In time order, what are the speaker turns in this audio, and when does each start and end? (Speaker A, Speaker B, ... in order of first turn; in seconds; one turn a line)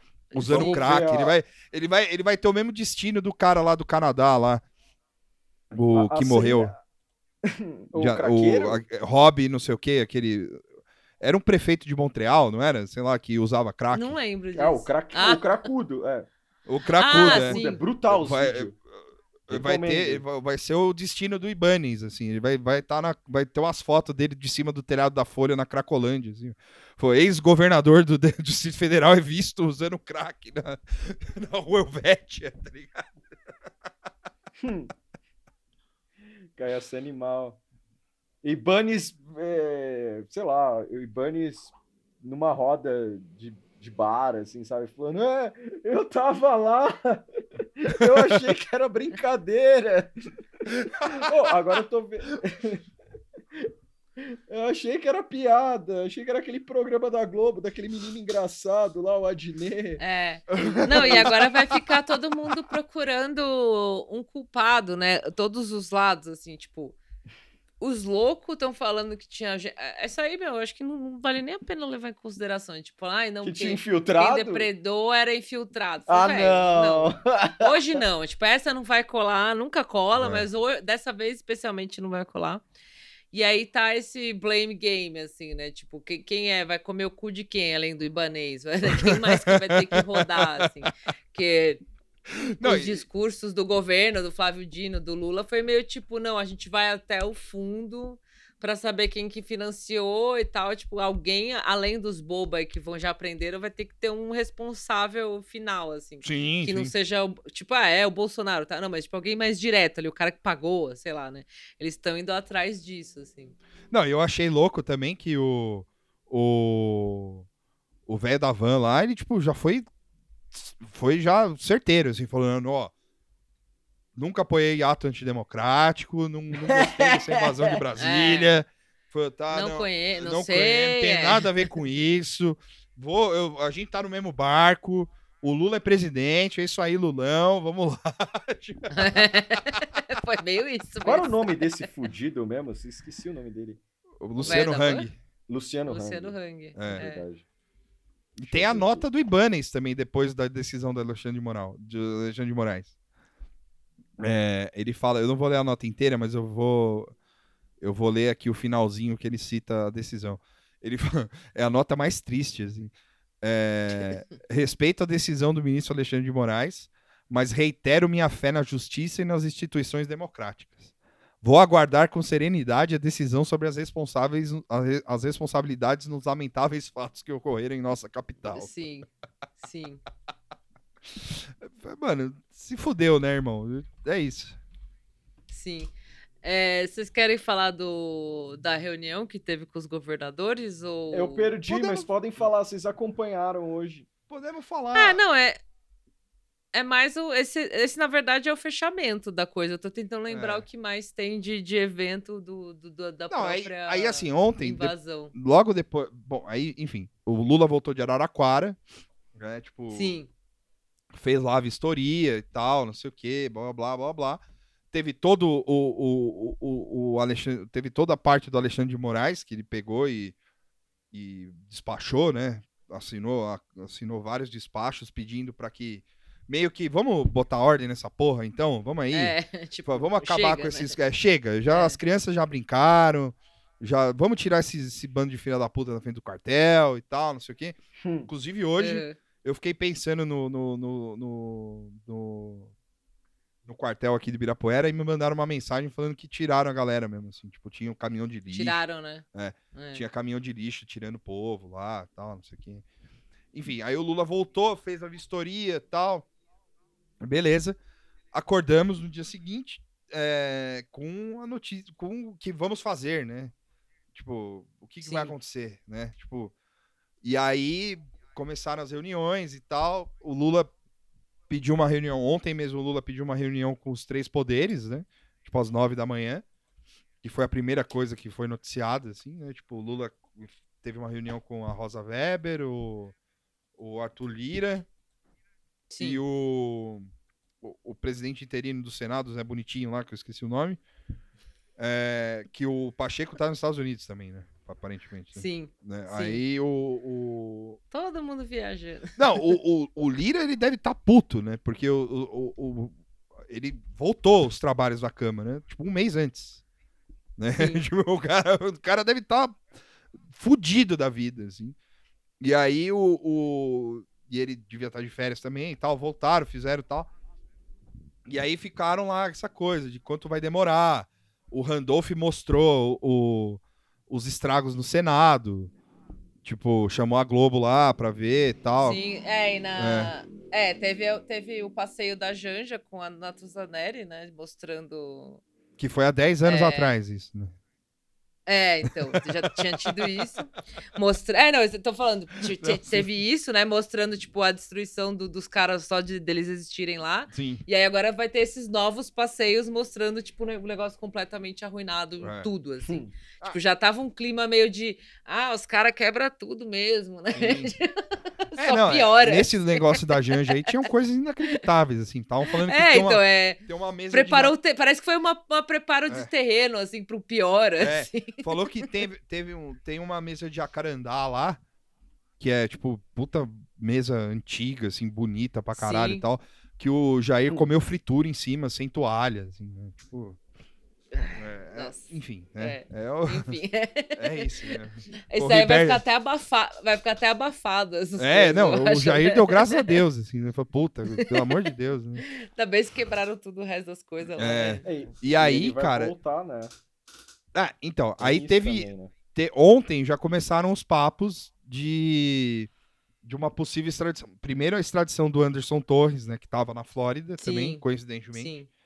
Speaker A: 0.3-0.9
Speaker B: 0.3-4.6
Speaker C: 0.5-1.4
Speaker B: 5.7-6.7
Speaker C: 5.9-6.8
Speaker C: 7.4-8.8
Speaker B: 8.0-10.6
Speaker B: 11.2-14.2
Speaker A: 13.9-15.4
Speaker C: 14.6-16.3
Speaker B: 16.7-18.8
Speaker A: 17.0-17.8
Speaker C: 17.1-18.7
Speaker B: 19.5-33.0
Speaker C: 19.5-20.2
Speaker C: 34.6-34.9
Speaker C: 36.6-37.6
Speaker C: 38.4-52.8
Speaker B: 50.7-51.3
Speaker C: 53.5-60.0
Speaker A: 60.0-67.0
Speaker B: 60.5-61.8
Speaker C: 60.6-61.3
Speaker A: 67.8-82.6
Speaker C: 73.4-74.7
Speaker C: 76.1-78.0
Speaker B: 80.2-80.5
Speaker A: 83.3-91.8
Speaker B: 89.0-90.6
Speaker B: 92.3-93.0
Speaker A: 92.6-113.6
Speaker B: 106.2-106.9
Speaker B: 113.9-117.5
Speaker B: 118.1-119.9
Speaker B: 120.5-122.9
Speaker B: 124.2-139.3
Speaker C: 126.6-127.8
Speaker A: 128.0-128.6
Speaker A: 129.5-131.5
Speaker A: 138.9-141.6
Speaker C: 141.0-143.8
Speaker B: 144.2-145.2
Speaker A: 144.4-145.1
Speaker C: 145.5-147.4
Speaker A: 145.9-147.2
Speaker B: 146.8-147.1
Speaker B: 148.4-152.9
Speaker C: 148.4-149.1
Speaker B: 154.2-157.1
Speaker B: 157.8-170.9
Speaker B: 171.4-178.7
Speaker A: 178.5-179.1
Speaker A: 179.6-180.0
Speaker B: 181.1-184.6
Speaker A: 185.5-185.9
Speaker A: 186.4-191.5
Speaker C: 191.1-194.1
Speaker B: 191.7-192.1
Speaker B: 194.3-195.2
Speaker A: 194.9-195.6
Speaker A: 196.7-205.3
Speaker B: 200.3-200.6
Speaker B: 203.3-208.8
Speaker B: 209.3-210.2
Speaker A: 209.9-210.3
Speaker B: 211.1-214.4
Speaker B: 214.9-220.3
Speaker B: 221.1-237.8
Speaker A: 229.1-231.0
Speaker A: 231.7-232.0
Speaker C: 238.0-238.3
Speaker B: 238.3-242.7
Speaker A: 238.8-239.2
Speaker B: 243.7-248.8
Speaker A: 248.5-250.0
Speaker B: 249.3-252.8
Speaker B: 253.5-256.3
Speaker B: 257.2-257.8
Speaker B: 258.3-263.5
Speaker B: 264.1-266.5
Speaker A: 265.0-265.3
Speaker B: 267.2-270.7
Speaker B: 271.5-276.4
Speaker B: 277.2-283.1
Speaker B: 283.8-284.9
Speaker A: 285.9-286.2
Speaker B: 286.0-287.1
Speaker B: 287.6-290.8
Speaker B: 291.8-297.8
Speaker A: 295.4-296.4
Speaker A: 297.9-299.2
Speaker B: 299.2-306.6
Speaker B: 307.4-309.6
Speaker A: 307.6-307.8
Speaker B: 310.3-311.8
Speaker B: 312.4-317.1
Speaker B: 318.3-325.7
Speaker B: 326.4-329.0
Speaker A: 328.8-335.4
Speaker B: 329.8-330.1
Speaker B: 335.8-337.5
Speaker A: 336.4-336.9
Speaker A: 338.5-357.9
Speaker B: 338.9-340.3
Speaker B: 342.5-343.1
Speaker B: 347.3-347.6
Speaker B: 352.2-352.5
Speaker C: 352.9-353.1
Speaker B: 357.3-357.7
Speaker A: 358.5-360.9
Speaker B: 358.6-364.6
Speaker A: 362.5-368.6
Speaker B: 367.8-371.6
Speaker B: 372.4-380.4
Speaker A: 375.7-376.2
Speaker A: 381.1-384.8
Speaker B: 381.4-383.6
Speaker B: 384.2-386.0
Speaker A: 385.3-390.0
Speaker B: 388.2-392.2
Speaker A: 391.1-391.6
Speaker A: 392.2-394.8
Speaker B: 394.4-396.1
Speaker C: 394.8-396.7
Speaker B: 397.5-402.7
Speaker C: 398.2-399.1
Speaker B: 403.2-408.5
Speaker A: 407.4-407.8
Speaker A: 408.3-408.7